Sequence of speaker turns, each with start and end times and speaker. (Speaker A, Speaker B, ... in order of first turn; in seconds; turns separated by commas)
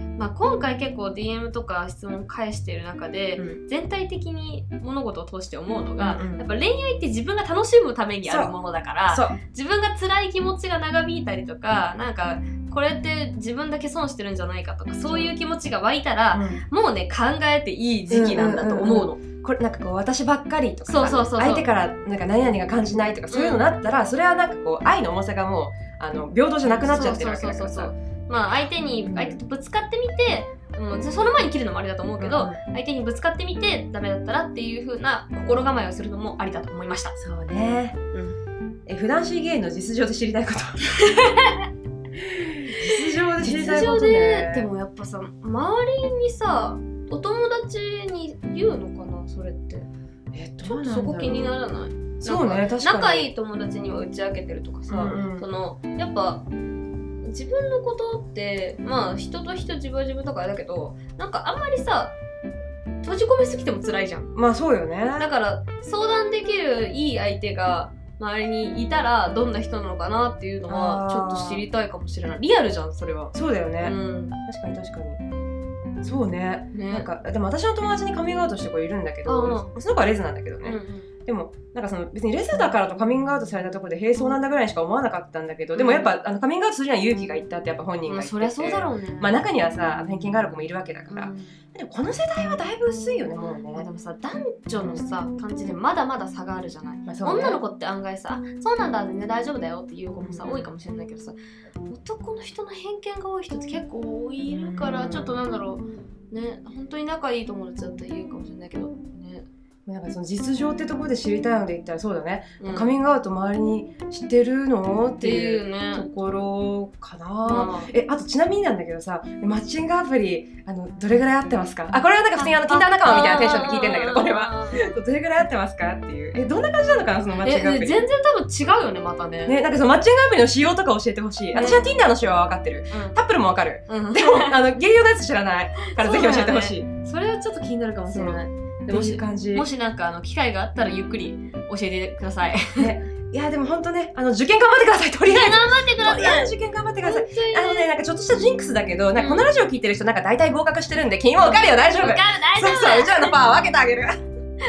Speaker A: 0.2-19.2, Speaker B: 6.0-6.4, Speaker B: 8.3-8.5, Speaker B: 9.1-9.3, Speaker B: 15.1-15.3, Speaker B: 16.3-16.6, Speaker B: 18.1-27.9, Speaker A: 20.9-21.7, Speaker A: 23.3-23.7, Speaker A: 26.6-37.1, Speaker B: 29.0-29.4, Speaker B: 32.2-32.6, Speaker B: 37.2-38.1, Speaker B: 38.9-41.0, Speaker A: 41.0-41.6, Speaker B: 42.2-44.7, Speaker A: 43.4-49.9, Speaker B: 50.3-51.5, Speaker A: 50.6-56.5, Speaker B: 52.2-53.3, Speaker B: 54.9-55.5, Speaker A: 57.2-62.1, Speaker A: 63.0-64.3, Speaker B: 64.3-65.3, Speaker A: 65.2-74.4, Speaker B: 70.7-71.6, Speaker B: 73.3-75.2, Speaker B: 76.0-93.8, Speaker A: 76.7-77.1, Speaker A: 79.3-79.7, Speaker A: 80.6-81.1, Speaker A: 85.7-86.1, Speaker A: 88.1-89.4, Speaker A: 91.1-91.5, Speaker A: 93.7-101.3, Speaker B: 97.1-97.6, Speaker B: 100.2-100.7, Speaker A: 101.9-109.5, Speaker B: 104.5-105.4, Speaker B: 109.8-128.0, Speaker A: 112.6-112.9, Speaker A: 115.2-116.1, Speaker A: 117.4-117.9, Speaker A: 122.3-124.9, Speaker A: 127.4-129.6, Speaker B: 129.4-136.8, Speaker A: 131.5-131.9, Speaker A: 132.9-133.2, Speaker A: 133.9-134.6, Speaker A: 135.9-142.9, Speaker B: 138.1-139.7, Speaker B: 142.8-154.2, Speaker A: 145.2-146.5, Speaker A: 147.0-147.9, Speaker A: 149.1-149.5, Speaker A: 151.4-153.4